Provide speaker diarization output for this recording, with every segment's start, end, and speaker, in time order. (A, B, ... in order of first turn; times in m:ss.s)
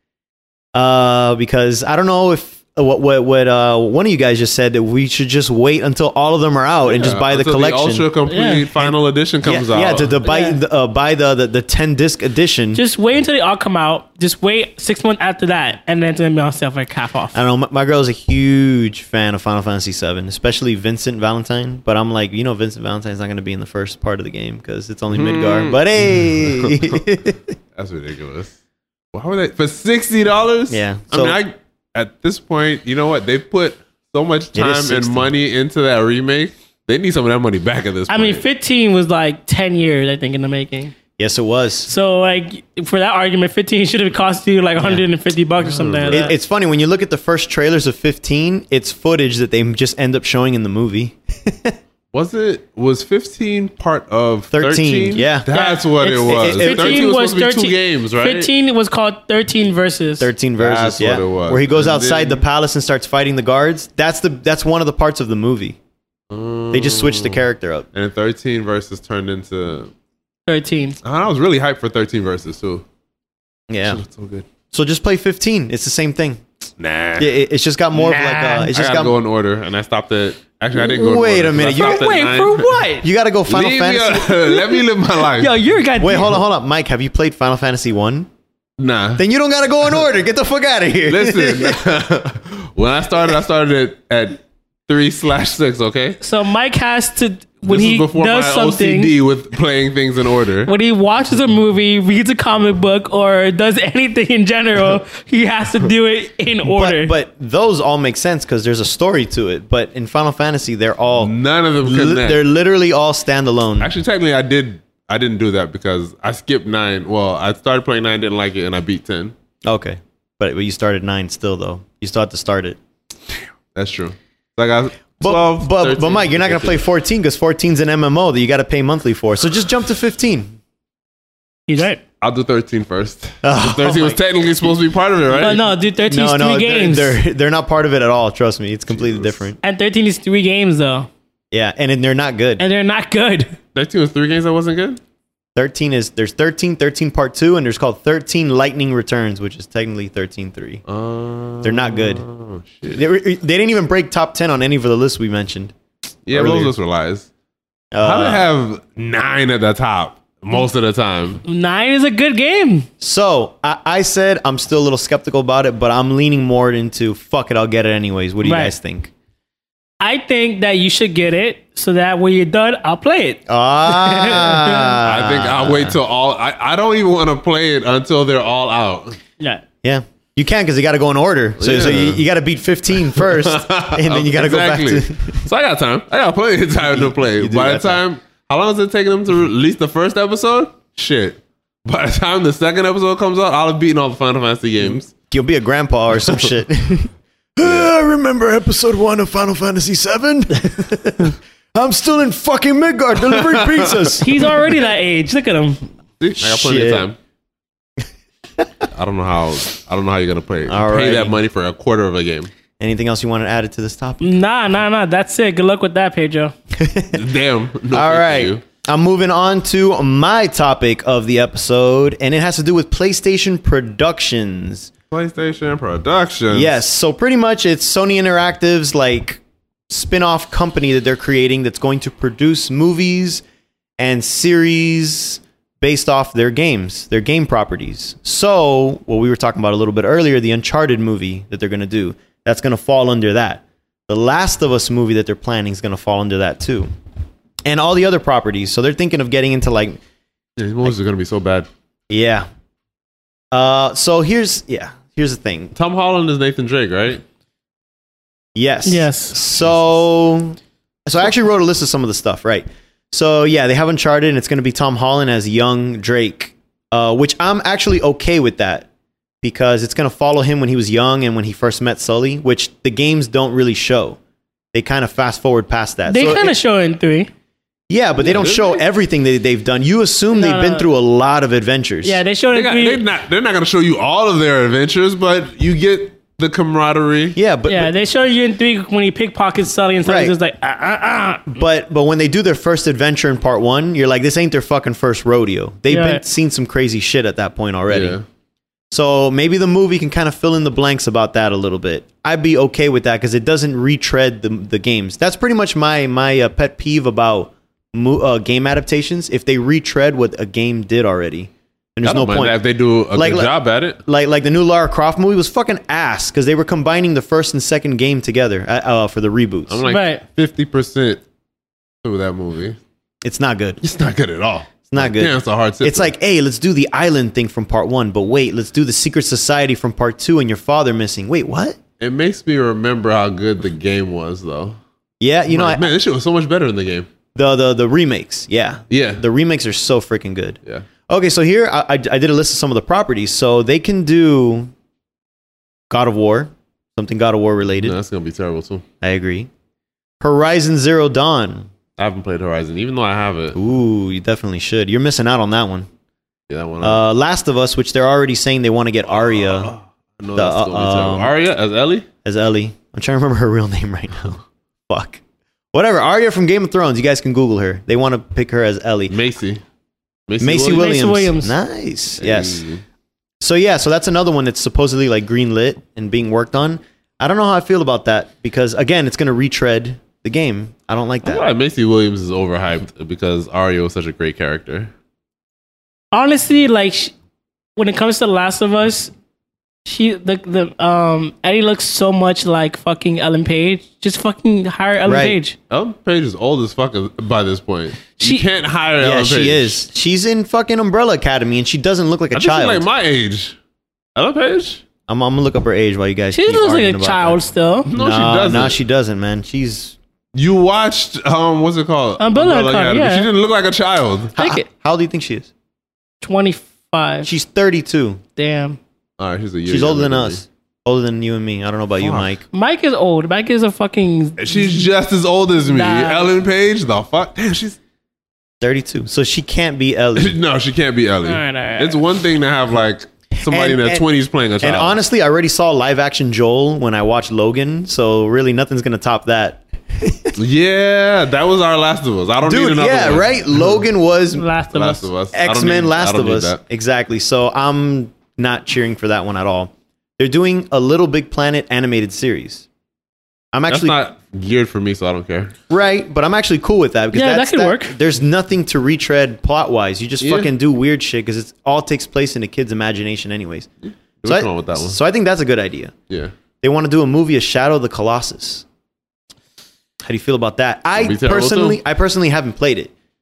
0:00.7-0:12.8 A
0:06.8-0:10.2 B
0:08.3-0:08.6 C
0:10.2-0:10.6 C
0:12.7-0:17.4 C
0:17.3-0:27.5 A
0:25.1-0:27.0 B
0:27.8-0:28.6 B
0:29.1-0:38.4 B
0:30.7-0:31.4 A
0:34.5-0:35.3 A
0:38.1-0:40.9 C
0:41.2-0:41.9 A
0:41.8-0:46.3 C
0:45.6-0:46.3 B
0:46.1-0:51.8 A
0:52.1-0:58.5 B
0:54.5-0:55.5 A
0:55.5-1:00.3 C
0:56.0-0:57.0 A
1:00.2-1:05.8 A
1:00.6-1:02.4 B
1:06.3-1:09.9 B
1:06.7-1:07.9 A
1:10.5-1:11.0 C
1:11.0-1:12.8 B
1:13.7-1:14.0 A
1:13.8-1:14.4 B
1:14.7-1:16.4 A
1:16.8-1:17.4 B
1:17.2-1:19.1 A
1:18.0-1:22.7 B
1:20.7-1:22.1 A
1:21.7-1:23.1 C
1:23.0-1:24.4 A
1:23.5-1:25.6 B
1:24.5-1:24.8 C
1:25.3-1:26.4 C
1:26.0-1:28.3 A
1:28.8-1:29.2 B
1:29.2-1:31.8 A
1:31.1-1:36.2 B
1:36.2-1:39.1 C
1:37.6-1:40.7 B
1:40.6-1:47.1 C
1:46.6-1:53.9 A
1:51.2-1:52.4 B
1:53.8-1:59.3 B
1:59.6-2:02.8 A
2:03.7-2:06.8 B
2:05.2-2:10.6 A
2:11.7-2:12.0 C
2:12.2-2:15.6 B
2:13.4-2:14.2 A
2:15.4-2:17.2 C
2:16.1-2:19.6 A
2:18.9-2:19.3 B
2:19.6-2:21.1 C
2:21.5-2:22.6 A
2:22.6-2:23.6 C
2:23.7-2:25.0 B
2:25.6-2:30.8 A
2:30.8-2:33.0 B
2:31.6-2:32.2 A
2:32.9-2:35.7 A
2:36.2-2:37.3 B
2:36.3-2:36.7 A
2:37.9-2:38.4 A
2:38.0-2:41.4 B
2:41.4-2:42.9 C
2:43.0-2:49.1 A
2:48.4-2:48.7 C
2:50.0-2:55.0 C
2:53.5-2:56.0 A
2:55.0-2:59.2 B
2:59.8-3:05.4 A
3:01.6-3:02.2 B
3:03.1-3:15.1 B
3:06.8-3:08.0 A
3:15.3-3:24.6 A
3:23.3-3:24.2 B
3:24.2-3:25.9 C
3:26.2-3:27.2 B
3:26.4-3:27.1 A
3:28.6-3:28.8 A
3:28.9-3:32.5 B
3:30.7-3:31.4 A
3:32.8-3:34.2 A
3:34.2-3:36.5 C
3:36.7-3:37.2 A
3:37.1-3:38.6 B
3:37.9-3:44.9 A
3:45.1-3:46.8 B
3:46.5-3:53.4 A
3:54.0-4:06.9 A
4:07.6-4:10.0 A
4:10.6-4:11.7 B
4:12.1-4:12.4 A
4:13.5-4:15.7 A
4:15.7-4:17.2 B
4:18.5-4:28.9 A
4:18.8-4:19.4 C
4:29.4-4:34.2 A
4:34.7-4:36.5 A
4:36.1-4:37.3 C
4:37.9-4:42.2 A
4:38.2-4:38.8 B
4:40.3-4:40.9 C
4:42.0-4:43.0 C
4:42.5-4:47.4 B
4:47.4-4:47.9 A
4:47.7-4:51.6 C
4:50.0-4:50.3 A
4:51.5-4:58.2 A
4:55.9-4:56.2 C
4:57.9-4:58.2 B
4:58.9-5:12.6 A
5:12.0-5:14.0 B
5:13.1-5:13.5 A
5:14.0-5:19.8 A
5:19.7-5:21.2 B
5:19.8-5:20.2 C
5:22.0-5:22.8 B
5:23.2-5:23.8 A
5:23.8-5:26.1 B
5:24.9-5:31.8 A
5:32.0-5:34.8 B
5:35.2-5:35.9 A
5:35.5-5:37.1 B
5:37.3-5:44.7 A
5:38.9-5:39.2 B
5:45.9-5:48.0 A
5:47.8-5:48.8 B
5:49.0-5:49.5 A
5:50.2-5:51.7 A
5:52.0-5:53.6 B
5:53.5-5:55.9 A
5:56.5-5:57.0 B
5:56.8-5:59.7 A
5:59.4-6:02.0 B
6:00.3-6:01.3 A
6:02.2-6:05.2 A
6:05.7-6:09.1 A
6:09.1-6:09.6 B
6:10.3-6:11.0 B
6:10.4-6:12.6 A
6:10.6-6:11.5 C
6:12.2-6:12.8 B
6:13.4-6:21.4 A
6:21.2-6:24.9 B
6:26.1-6:27.1 C
6:27.8-6:29.1 C
6:29.8-6:35.6 C
6:35.0-6:35.4 A
6:35.7-6:39.8 B
6:38.2-6:38.4 C
6:39.0-6:42.8 A
6:42.3-6:43.6 B
6:44.2-6:44.8 B
6:45.1-6:47.4 A
6:46.3-6:47.9 C
6:47.9-6:48.8 B
6:47.9-6:50.0 A
6:50.3-6:54.4 B
6:52.2-6:53.3 C
6:54.4-6:55.5 A
6:54.4-6:54.7 C
6:56.2-6:57.3 C
6:57.2-6:58.2 A
6:58.4-6:58.8 C
6:59.2-7:00.4 B
6:59.7-7:02.4 A
7:02.0-7:02.3 B
7:02.5-7:04.8 C
7:04.4-7:07.8 B
7:05.7-7:06.3 C
7:08.6-7:10.4 A
7:10.2-7:15.0 B
7:11.2-7:12.0 C
7:13.4-7:14.0 A
7:14.6-7:20.4 A
7:20.4-7:23.8 B
7:22.4-7:24.4 A
7:24.4-7:25.1 C
7:24.7-7:26.6 B
7:25.3-7:32.7 A
7:33.5-7:33.9 A
7:33.7-7:35.5 B
7:35.7-7:43.7 A
7:37.1-7:38.0 C
7:40.2-7:40.5 B
7:43.8-7:45.0 B
7:44.2-7:45.9 A
7:46.6-7:48.6 A
7:50.0-7:52.9 A
7:51.0-7:51.8 B